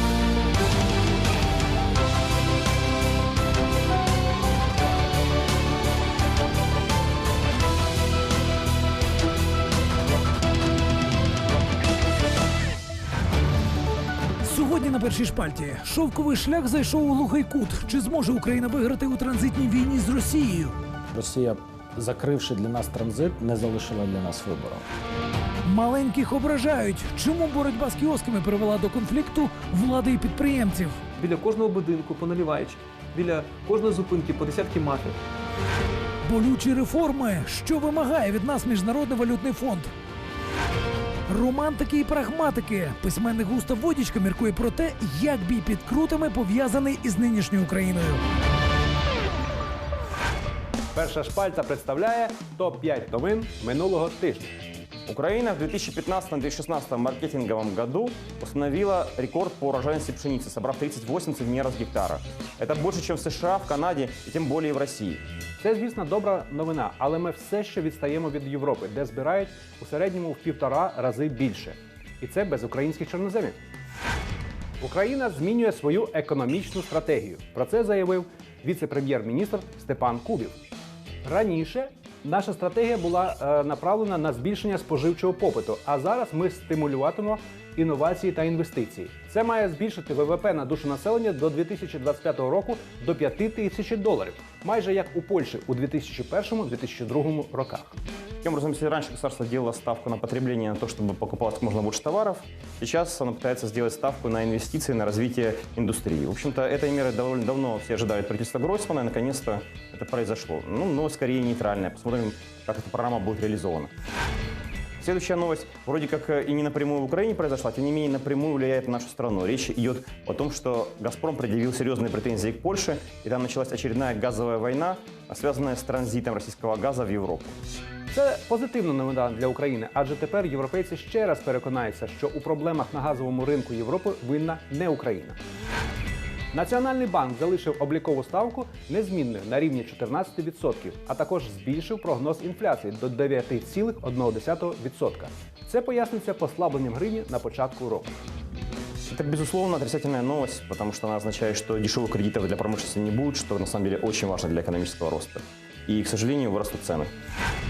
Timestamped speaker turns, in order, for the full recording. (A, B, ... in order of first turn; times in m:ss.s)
0:14.4-0:20.7 A
0:21.1-0:24.9 B
0:25.7-0:31.0 A
0:31.2-0:35.2 C
0:36.2-0:39.9 A
0:41.3-0:48.2 A
0:50.9-0:54.5 D
0:55.1-1:05.2 E
1:05.6-1:13.6 D
1:14.8-1:20.6 D
1:21.2-1:37.9 D
1:38.4-1:53.9 E
1:55.0-2:07.6 E
2:08.1-2:15.4 D
2:16.5-2:28.1 D
2:29.1-2:37.1 E